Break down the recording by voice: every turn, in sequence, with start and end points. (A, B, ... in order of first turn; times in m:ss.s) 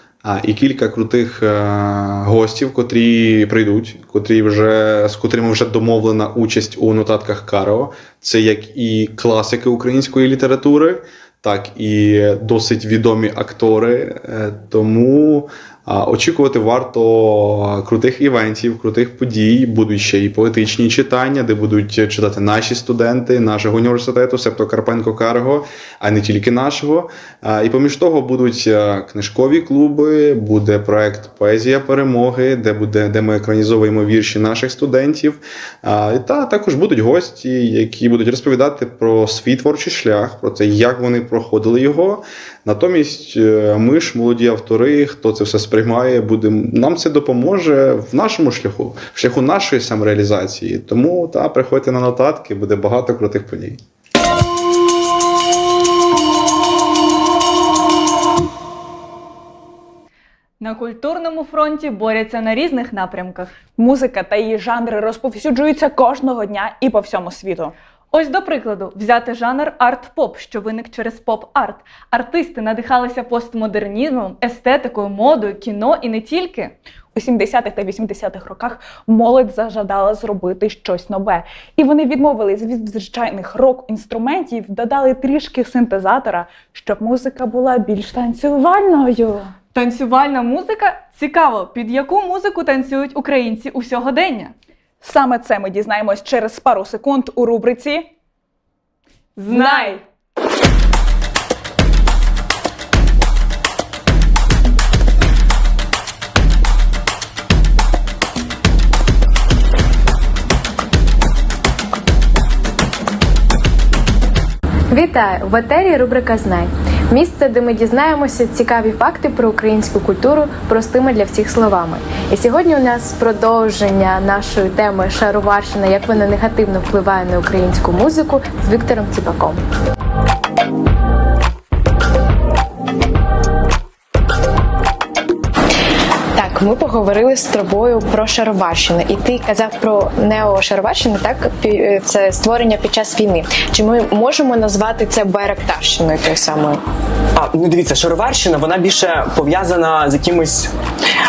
0:00.2-0:53.8 A
1:00.6-1:03.5 B
1:03.8-1:07.7 C
1:08.1-1:16.8 B
1:17.2-1:29.5 C
1:29.7-1:34.5 B
1:35.0-1:38.1 C
1:39.4-1:40.0 B
1:39.5-1:40.0 C
1:54.9-2:09.6 D
2:16.4-2:26.8 D
2:27.4-2:30.7 E